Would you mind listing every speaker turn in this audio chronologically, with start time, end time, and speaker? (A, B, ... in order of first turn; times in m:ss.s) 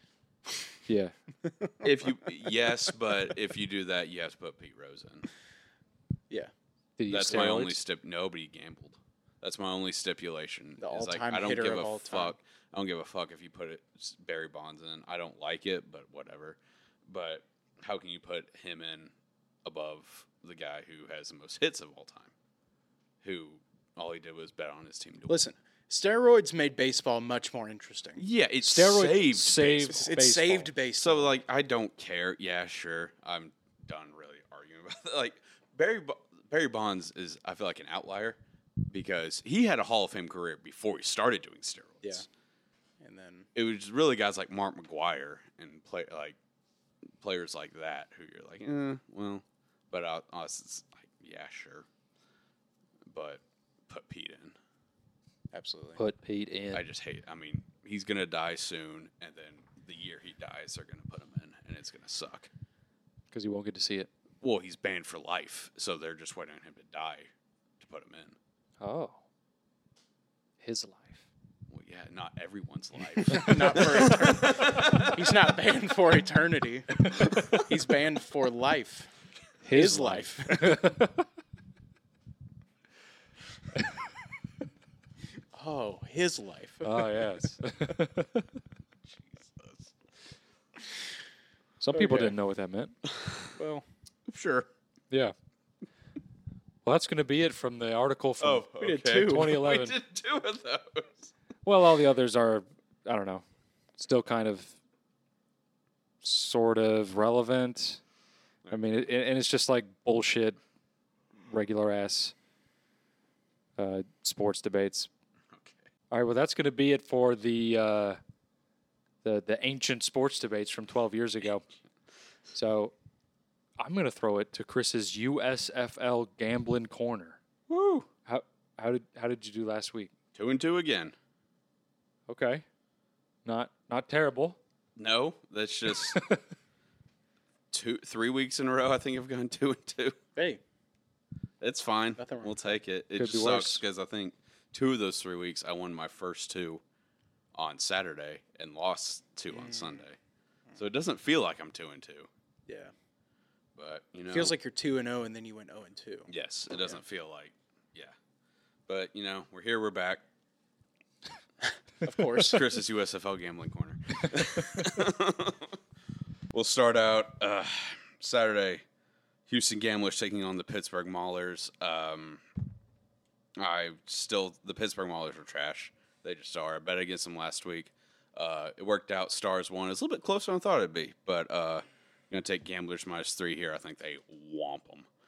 0:00.9-0:01.1 A
0:01.4-0:02.3 B
0:01.8-0:05.3 C
0:07.0-0:07.8 A
0:07.1-0:19.1 C
0:10.8-0:12.4 B
0:19.6-0:22.3 C
0:23.2-0:25.5 C
0:25.3-0:28.2 B
0:28.2-0:30.0 C
0:28.6-0:30.7 A
0:29.9-0:31.4 B
0:31.0-0:42.3 C
0:43.0-0:43.5 B
0:43.5-0:46.4 C
0:47.2-0:51.9 C
0:53.1-0:54.6 C
0:55.5-0:56.0 B
0:56.0-0:56.8 A
0:56.7-1:02.5 C
1:03.3-1:04.1 A
1:04.4-1:07.3 C
1:07.8-1:08.4 C
1:08.8-1:09.2 A
1:10.6-1:11.3 A
1:11.7-1:15.3 C
1:13.2-1:19.1 B
1:17.1-1:17.6 A
1:19.6-1:21.2 A
1:19.7-1:20.8 B
1:25.5-1:27.3 B
1:26.8-1:28.5 A
1:29.1-1:29.9 C
1:31.8-1:32.9 A
1:31.9-1:32.3 B
1:33.1-1:33.6 C
1:33.6-1:33.8 B
1:34.3-1:34.7 C
1:36.8-1:39.9 A
1:38.4-1:41.3 C
1:38.8-1:39.6 B
1:41.6-1:43.4 A
1:44.0-1:44.8 A
1:46.2-1:48.0 A
1:48.7-1:50.6 A
1:51.4-1:52.3 A
1:53.8-1:55.1 A
1:55.5-1:55.9 C
1:56.1-1:58.2 A
1:59.2-2:01.6 A
2:02.5-2:02.9 A
2:03.8-2:07.4 A
2:07.7-2:08.1 C
2:08.2-2:10.1 A
2:10.3-2:11.2 C
2:12.3-2:12.6 A
2:13.4-2:14.6 A
2:15.0-2:16.3 C
2:16.0-2:16.4 A
2:17.7-2:20.2 C
2:20.4-2:20.6 B
2:21.6-2:26.8 C
2:22.2-2:22.8 B
2:23.2-2:23.8 A
2:27.5-2:30.2 C
2:29.5-2:30.0 B
2:30.8-2:32.3 C
2:32.7-2:32.9 B
2:33.8-2:34.5 C
2:34.3-2:36.3 B
2:36.3-2:38.1 C
2:38.9-2:40.2 C
2:42.0-2:42.6 B
2:42.1-2:45.8 C
2:46.5-2:48.8 C
2:49.5-2:52.4 C
2:53.6-3:05.1 C